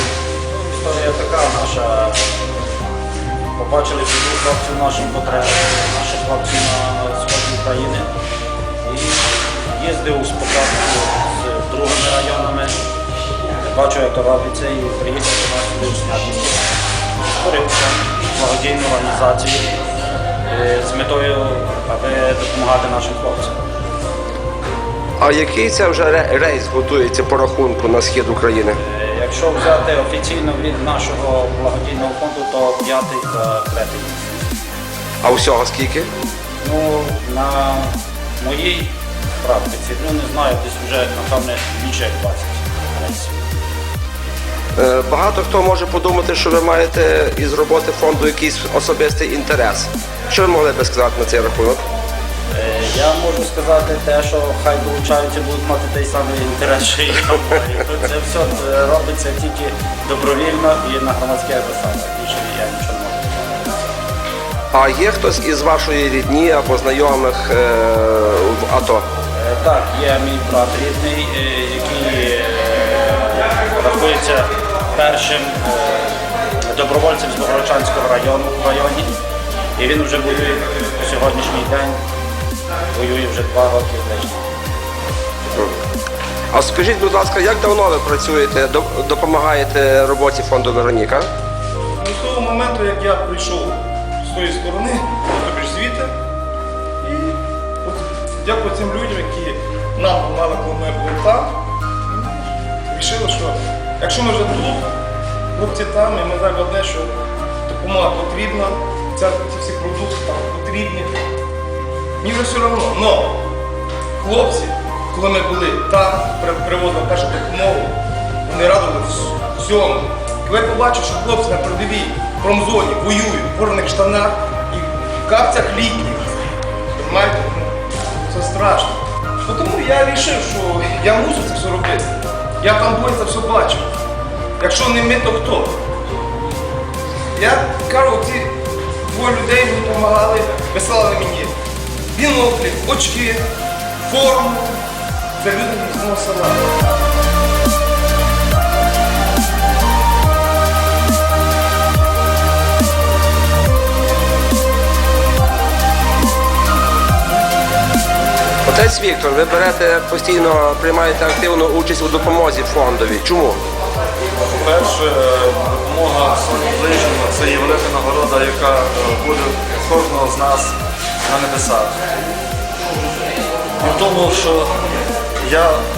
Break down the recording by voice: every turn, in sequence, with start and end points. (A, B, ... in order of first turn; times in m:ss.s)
0:00.5-0:02.3 A
0:03.5-0:08.1 A
0:08.8-0:12.8 A
0:13.6-0:16.6 A
0:17.4-0:19.7 A
0:20.5-0:23.5 A
0:25.2-0:28.8 B
0:28.8-0:34.6 A
0:35.2-0:36.1 B
0:36.6-0:43.5 A
0:44.8-0:51.8 B
0:52.5-1:03.8 A
1:04.7-1:09.0 B
1:09.3-1:19.1 A
1:19.8-1:22.0 A
1:22.9-1:24.5 A
1:25.5-1:25.8 B
1:26.5-1:31.3 B
1:32.0-1:36.1 C
1:37.0-1:41.6 C
1:42.1-1:44.9 C
1:45.5-1:47.1 C
1:47.7-1:51.1 C
1:52.2-1:53.4 C
1:54.2-2:06.3 C
2:06.9-2:12.1 C
2:12.6-2:13.9 C
2:14.6-2:15.8 C
2:17.3-2:21.5 C
2:22.1-2:24.8 C
2:25.4-2:26.7 C
2:38.6-2:43.6 B
2:44.4-2:50.7 D
2:51.3-2:52.0 D
2:53.8-2:54.7 D
2:55.4-2:55.8 D